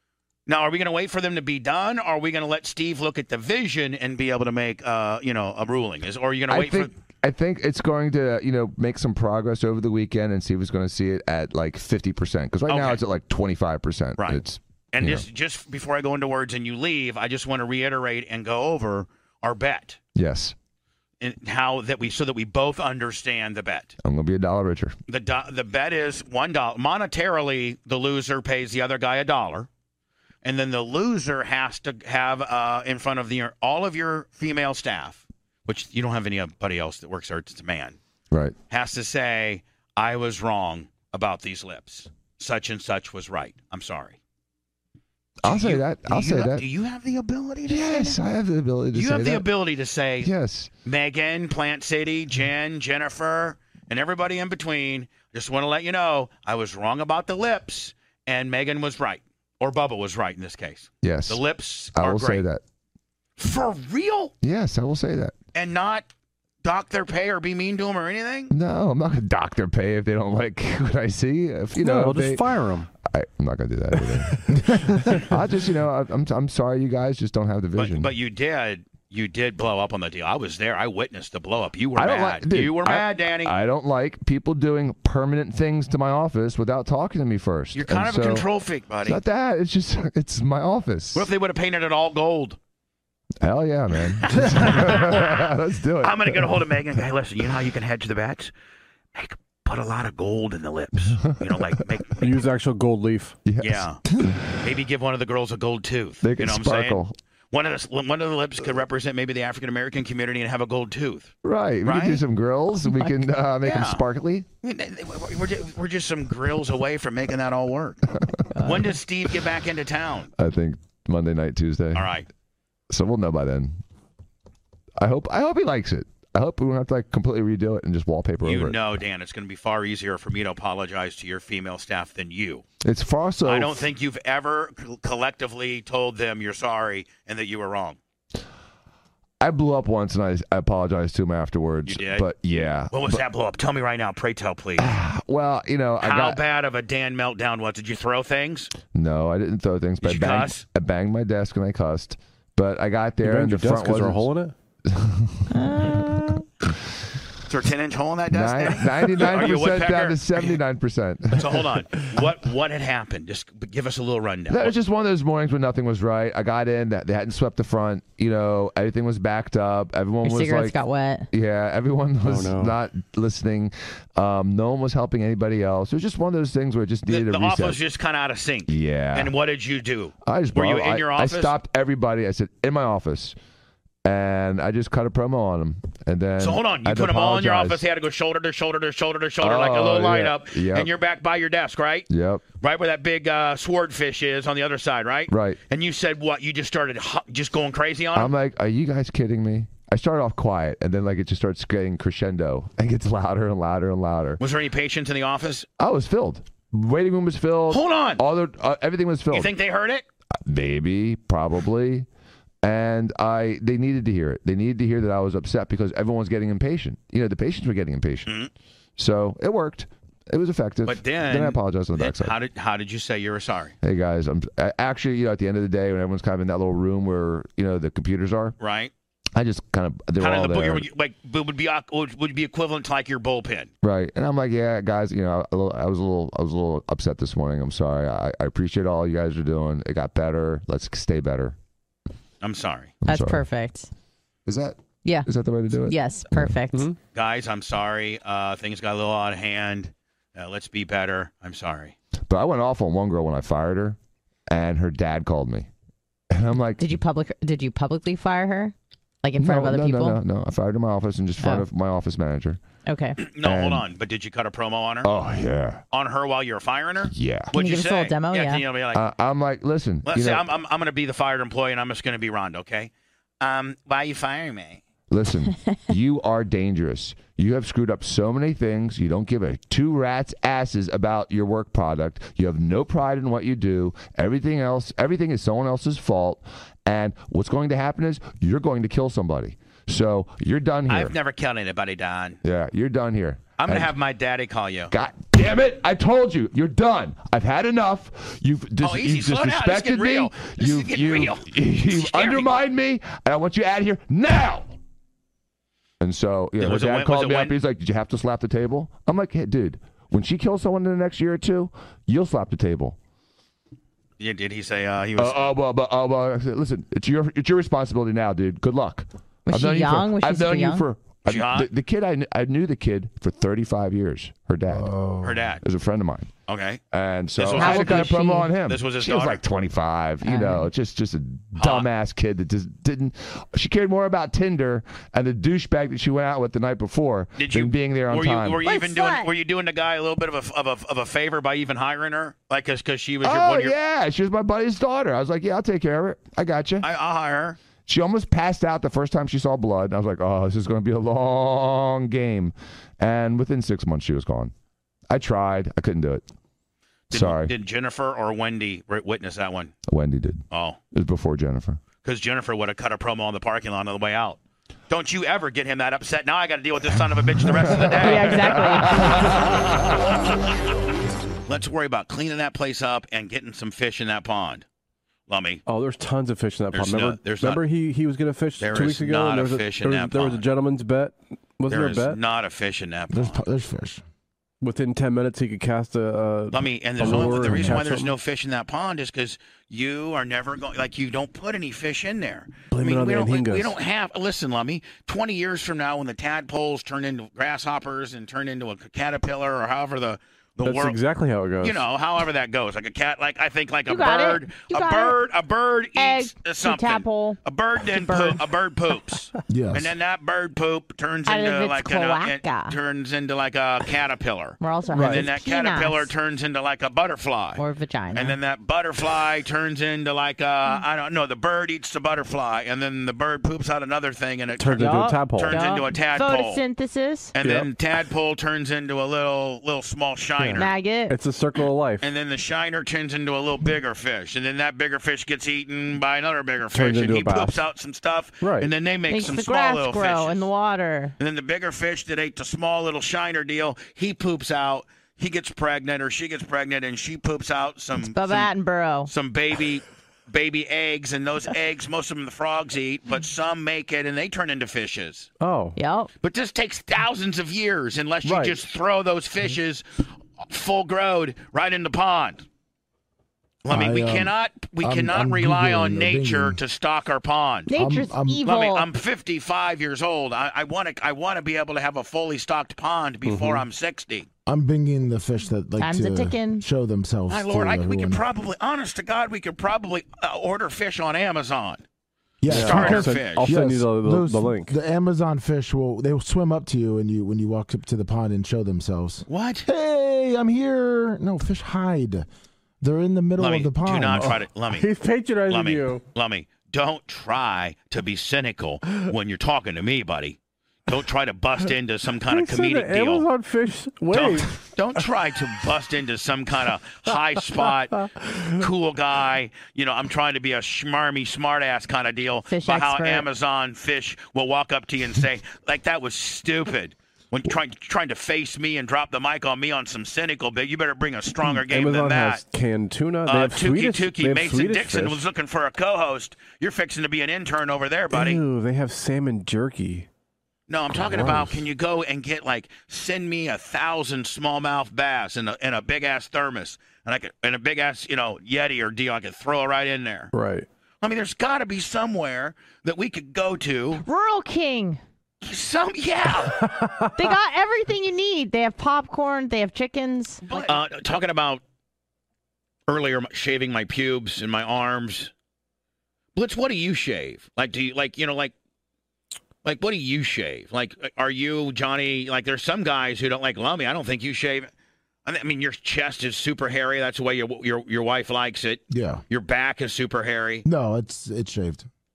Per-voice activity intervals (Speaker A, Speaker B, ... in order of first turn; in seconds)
Speaker A: 0.5-6.9, 12.7-13.0, 14.9-20.0, 21.2-23.9, 25.1-29.7, 30.4-38.0, 38.7-44.2, 45.4-48.2, 48.9-50.3, 50.9-62.5, 63.4-64.3, 65.5-66.1, 66.6-68.5, 77.8-83.5, 87.7-89.2, 91.2-92.6, 94.1-95.5, 96.0-98.5, 99.2-102.4, 103.6-104.0, 104.6-112.2, 113.6-114.0, 114.6-120.3, 122.0-122.3, 128.4-132.7, 133.4-138.0, 141.9-142.3, 142.9-144.9, 146.0-148.7, 150.0-150.6, 157.5-160.6, 161.3-164.8, 177.1-181.5, 186.4-198.3, 204.4-205.7, 207.7-208.2, 209.3-210.1, 220.8-223.8, 228.6-228.9, 230.2-233.7, 242.4-243.0, 247.1-251.9, 263.2-265.1, 265.9-269.0, 270.1-274.8, 290.9-292.4, 293.6-294.9, 298.8-302.5, 306.6-307.6, 314.2-315.4, 321.3-321.7, 325.2-325.6, 326.5-326.8, 327.4-329.4, 331.6-331.9, 337.4-343.8, 346.8-347.6, 357.1-359.8, 360.5-360.8, 362.0-364.4, 364.9-369.0, 371.5-374.6, 375.3-375.6, 376.7-377.6, 378.6-380.4, 381.7-383.4, 386.5-401.0, 401.6-417.6, 418.1-426.6, 427.3-430.7, 432.0-440.4, 441.2-448.5, 449.1-455.3, 456.2-462.5, 463.6-467.7, 468.4-474.3, 477.3-481.8, 482.5-483.5, 489.3-489.7, 493.4-494.9, 495.5-500.4, 500.9-503.2, 504.1-508.0, 508.6-522.4, 523.3-528.4, 530.7-540.3, 541.0-544.0, 545.4-546.7, 550.5-551.6, 552.9-555.3, 556.4-558.5, 559.6-564.7, 565.3-570.7
Speaker B: 6.5-15.2, 20.1-20.6, 24.0-25.0, 38.3-38.6, 45.4-46.6, 47.7-49.5, 50.2-50.7, 61.0-61.4, 62.0-62.6, 64.4-65.3, 68.5-78.1, 82.0-88.5, 89.0-91.3, 93.4-96.7, 103.5-104.4, 106.2-107.2, 111.4-114.5, 120.4-122.1, 122.9-123.8, 125.0-128.8, 132.8-133.9, 139.4-143.2, 144.8-146.4, 148.9-154.3, 154.9-156.0, 158.3-161.7, 164.5-170.8, 171.3-177.8, 178.7-179.3, 180.3-183.4, 184.1-187.8, 189.4-190.9, 192.1-192.4, 195.3-195.6, 198.2-204.4, 205.8-209.5, 210.5-212.1, 212.6-218.3, 219.0-222.3, 223.8-228.6, 229.3-230.9, 233.8-241.6, 243.1-243.4, 244.5-246.5, 252.3-254.0, 254.5-255.7, 256.3-256.9, 259.4-262.6, 263.4-263.9, 265.0-265.8, 267.1-267.5, 268.9-270.5, 275.1-291.1, 292.4-293.9, 294.9-304.7, 306.0-313.0, 315.2-324.9, 325.6-326.3, 326.9-338.6, 343.2-346.9, 347.9-354.5, 355.1-356.2, 357.1-357.5, 359.9-361.8, 367.5-370.1
Speaker C: 71.8-72.9, 102.2-103.4, 153.2-154.5, 172.2-172.8, 375.7-382.2, 384.6-388.1, 392.7-393.8, 400.6-401.8, 414.9-415.3, 424.6-425.6, 427.4-427.7, 430.4-432.1, 436.7-437.6, 438.4-438.7, 455.4-455.8, 458.2-458.6, 473.2-473.6, 482.5-484.7, 494.2-496.0, 502.3-504.5, 507.1-508.7, 521.5-525.2, 528.1-530.1, 530.9-531.7, 540.3-540.7, 546.6-547.2
Speaker D: 118.5-118.8, 155.5-156.4, 170.2-171.3, 243.1-243.9, 245.8-246.9, 256.8-260.2, 262.9-263.2, 267.5-268.6, 319.5-320.9, 327.6-328.5, 330.2-330.7, 338.6-339.3, 368.0-369.3, 403.9-405.2, 406.0-408.4, 411.3-412.8, 414.6-416.1, 417.6-418.4, 424.8-427.3, 430.6-431.2, 439.1-441.1, 448.0-449.1, 455.8-456.1, 467.7-468.9, 475.8-476.6, 512.5-513.3, 544.0-545.0, 547.2-550.5
Speaker E: 324.7-325.5, 383.1-384.0, 387.0-387.7, 409.5-409.9, 463.7-466.6, 467.7-468.4, 474.5-478.2, 482.4-492.3, 492.8-494.4, 568.9-569.2, 570.6-571.9